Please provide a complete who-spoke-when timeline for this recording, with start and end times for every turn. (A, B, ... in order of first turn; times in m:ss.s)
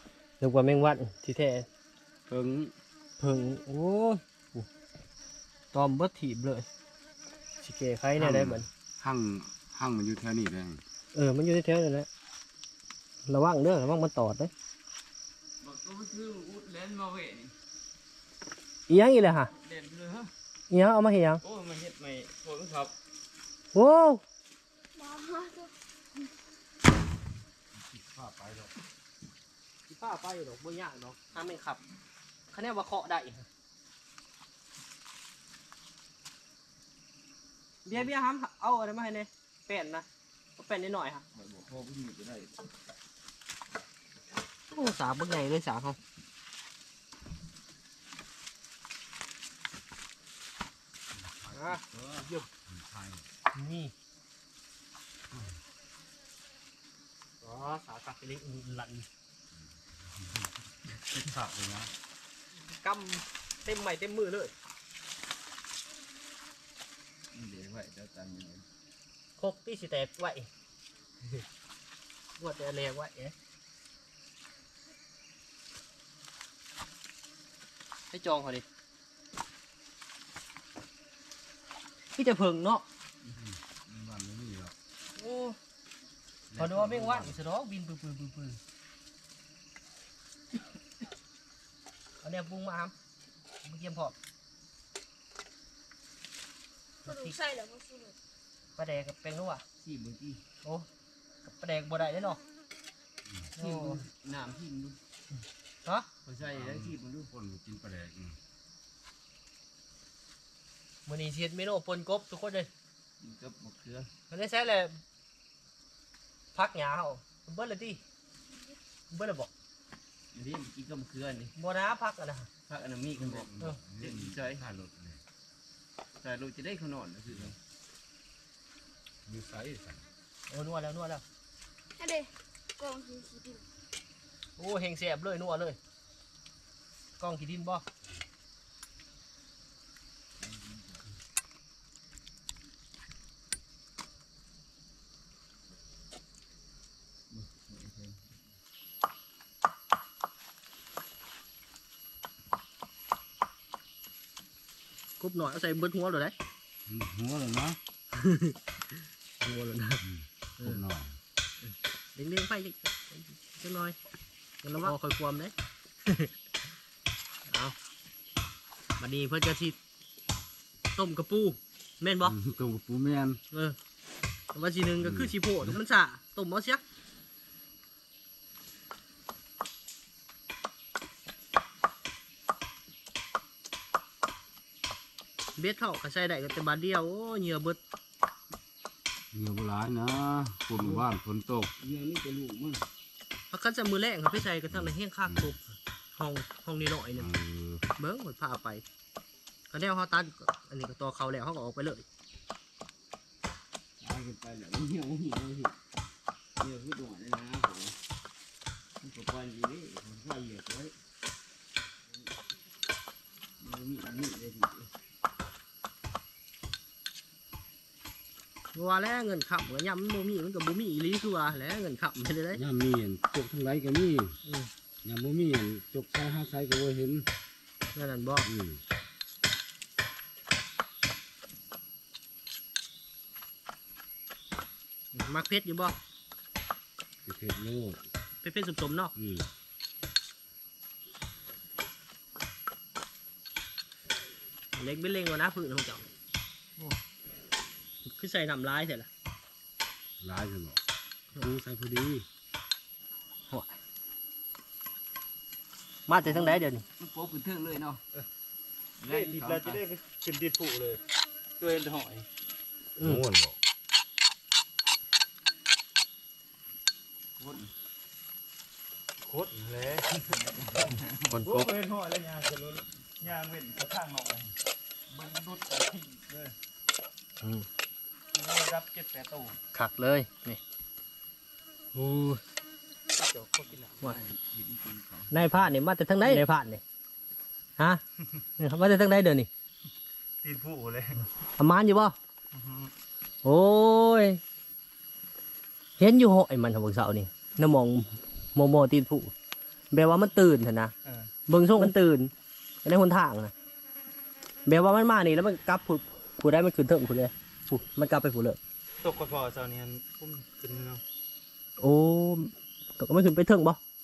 0:00.4-0:01.7 A
0:02.3-0:02.7 B
0:03.2-0:04.7 A
0:05.7-0:06.7 A
0:07.6-0:08.7 A
0:08.2-0:10.8 B
0:11.1-0:12.1 A
0:13.3-0:14.5 A
0:15.6-0:17.5 C
0:18.9-0:19.5 A
0:19.5-0:20.3 C
0:20.7-0:21.4 A
0:21.4-0:22.9 C
0:23.7-0:24.2 A
0:24.9-0:25.7 D
0:27.7-0:28.7 B
0:29.9-0:31.8 A
0:32.5-0:33.4 A
0:37.8-0:40.0 A
0:40.6-0:41.2 A
0:41.3-0:42.6 C
0:44.7-0:46.0 A
0:51.4-0:53.3 B
0:51.5-0:51.8 A
0:53.5-0:53.9 A
0:57.4-0:59.0 A
1:01.1-1:01.9 B
1:02.6-1:04.5 A
1:07.3-1:08.6 C
1:09.4-1:10.5 A
1:12.4-1:13.3 A
1:18.1-1:18.6 A
1:22.2-1:22.8 A
1:23.3-1:24.7 B
1:25.2-1:25.6 A
1:26.5-1:27.2 C
1:26.5-1:27.3 B
1:26.6-1:28.6 A
1:32.2-1:32.9 A
1:33.6-1:34.1 A
1:37.0-1:37.4 A
1:37.0-1:38.2 D
1:38.8-1:39.6 A
1:39.8-1:40.4 C
1:41.4-1:42.4 A
1:43.6-1:44.0 A
1:43.6-1:45.0 C
1:46.2-1:47.3 C
1:46.4-1:48.4 B
1:51.1-1:52.7 A
1:53.2-1:54.1 C
1:54.3-1:55.0 A
1:56.5-1:58.0 A
1:58.5-1:58.7 D
1:59.1-1:59.5 A
2:00.3-2:01.5 C
2:01.6-2:02.5 A
2:02.7-2:04.6 C
2:03.2-2:05.2 B
2:06.2-2:07.6 C
2:09.2-2:10.1 B
2:10.5-2:11.2 A
2:12.0-2:13.6 D
2:14.6-2:15.8 A
2:17.2-2:17.8 A
2:20.4-2:21.0 C
2:27.3-2:28.4 C
2:35.2-2:36.3 A
2:36.9-2:37.8 B
2:38.1-2:38.6 A
2:39.4-2:40.0 A
2:40.0-2:41.2 B
2:42.2-2:44.0 A
2:44.6-2:45.5 A
2:47.5-2:47.7 A
2:49.0-2:49.8 A
2:51.0-2:52.3 A
2:52.2-2:53.4 B
2:53.5-2:53.8 A
2:54.5-2:56.8 A
2:55.0-2:55.8 B
3:05.6-3:07.8 A
3:09.3-3:11.7 B
3:10.8-3:11.0 C
3:11.8-3:12.8 C
3:13.5-3:17.3 A
3:14.7-3:15.5 B
3:17.2-3:17.8 B
3:18.0-3:18.8 A
3:19.7-3:22.0 A
3:24.0-3:25.7 C
3:26.6-3:27.9 C
3:29.0-3:30.9 C
3:33.6-3:34.9 C
3:38.7-3:42.6 A
3:42.5-3:44.4 B
3:44.4-3:44.7 A
3:45.0-3:47.3 B
3:47.9-3:48.5 A
3:48.4-3:48.8 B
3:55.1-3:55.9 A
3:57.2-3:58.0 B
3:58.4-3:59.1 A
3:59.1-3:59.5 B
4:04.7-4:06.0 A
4:08.0-4:09.1 A
4:10.2-4:10.8 B
4:11.4-4:12.2 B
4:16.1-4:16.8 A
4:16.2-4:18.0 C
4:19.0-4:19.8 C
4:19.0-4:21.0 E
4:21.6-4:22.3 E
4:23.0-4:23.6 B
4:27.4-4:27.7 C
4:29.2-4:34.5 E
4:30.7-4:31.2 C
4:31.3-4:31.7 B
4:35.1-4:36.5 E
4:37.4-4:37.7 A
4:38.3-4:39.6 E
4:39.7-4:40.6 A
4:41.9-4:42.4 A
4:43.2-4:44.2 E
4:44.0-4:45.7 C
4:45.3-4:46.8 A
4:48.6-4:49.5 A
4:50.4-4:51.2 E
4:51.6-4:52.2 A
4:52.5-4:52.9 E
4:53.4-4:54.4 A
4:56.0-4:59.3 A
4:59.9-5:00.9 A
5:01.5-5:02.3 A
5:02.8-5:03.5 A
5:04.6-5:08.6 A
5:09.0-5:11.0 E
5:11.8-5:13.8 A